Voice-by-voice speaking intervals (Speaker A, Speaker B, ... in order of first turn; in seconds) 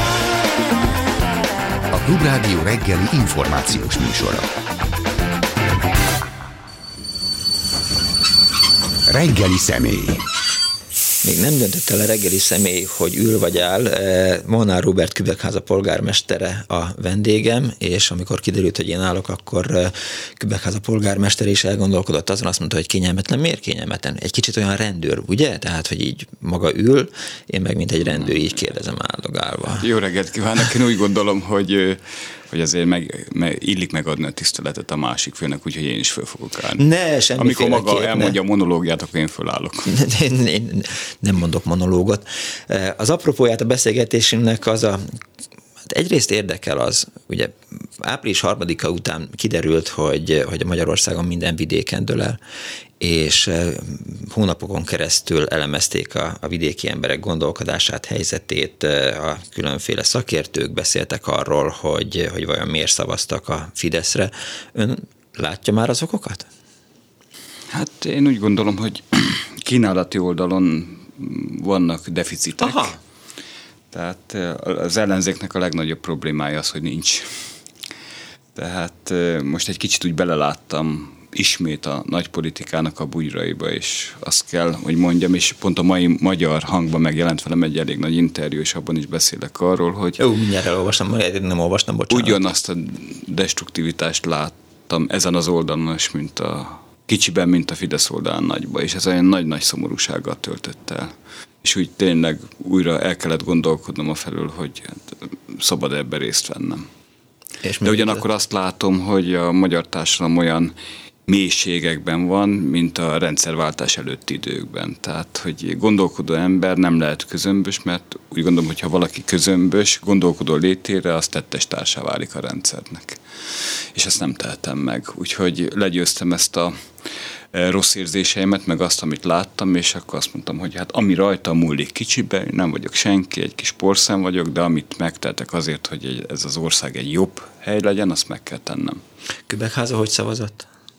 Speaker A: 1.9-4.5, 9.1-10.2
Speaker B: 11.2-29.9, 36.8-38.4, 39.9-45.0, 45.9-52.4, 53.0-66.5, 72.6-73.0, 90.2-92.4, 107.6-108.2, 139.5-140.7
Speaker C: 28.1-28.4, 29.8-36.8, 37.4-39.9, 67.7-72.9, 73.9-77.3, 78.5-90.2, 92.1-106.9, 107.8-110.8, 111.3-123.2, 123.9-126.7, 127.5-139.0